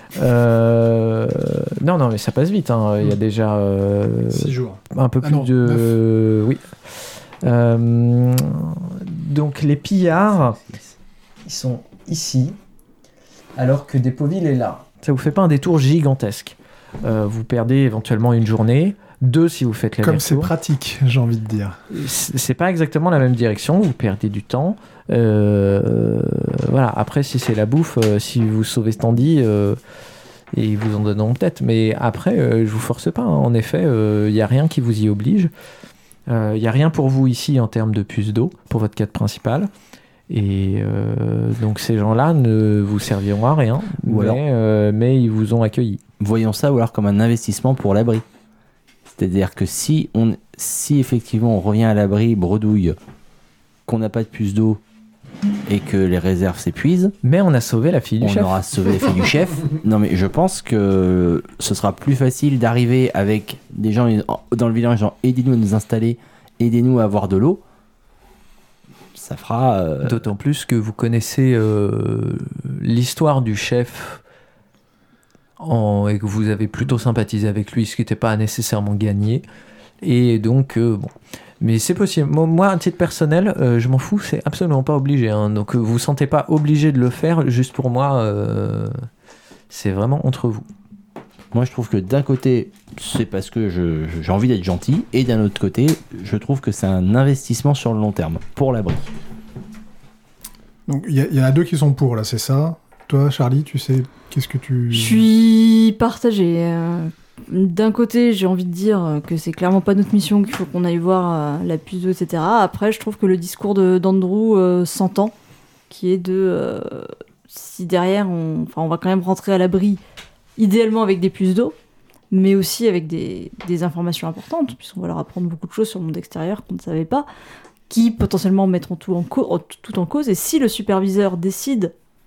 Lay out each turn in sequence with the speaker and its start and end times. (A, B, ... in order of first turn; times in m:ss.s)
0:00.2-0:10.6 A
0:04.3-0:05.9 B
0:10.6-0:10.8 C
0:11.4-0:12.6 A
0:13.6-0:20.5 A
0:20.0-0:21.8 B
0:21.9-0:29.8 A
0:30.5-0:35.5 A
0:36.3-0:39.7 A
0:40.3-0:46.0 A
0:44.0-0:44.4 C
0:46.2-0:48.2 C
0:49.1-0:53.0 C
0:53.9-0:54.8 C
0:55.7-0:57.1 C
0:57.2-0:58.5 A
0:58.2-1:07.6 C
1:09.1-1:10.2 C
1:10.0-1:14.2 A
1:15.6-1:19.4 A
1:20.0-1:29.0 A
1:29.7-1:30.7 A
1:31.5-1:39.1 C
1:40.9-1:45.3 B
1:44.9-1:55.3 D
1:55.9-2:00.0 D
2:00.6-2:01.7 D
2:02.3-2:07.3 D
2:07.9-2:11.9 D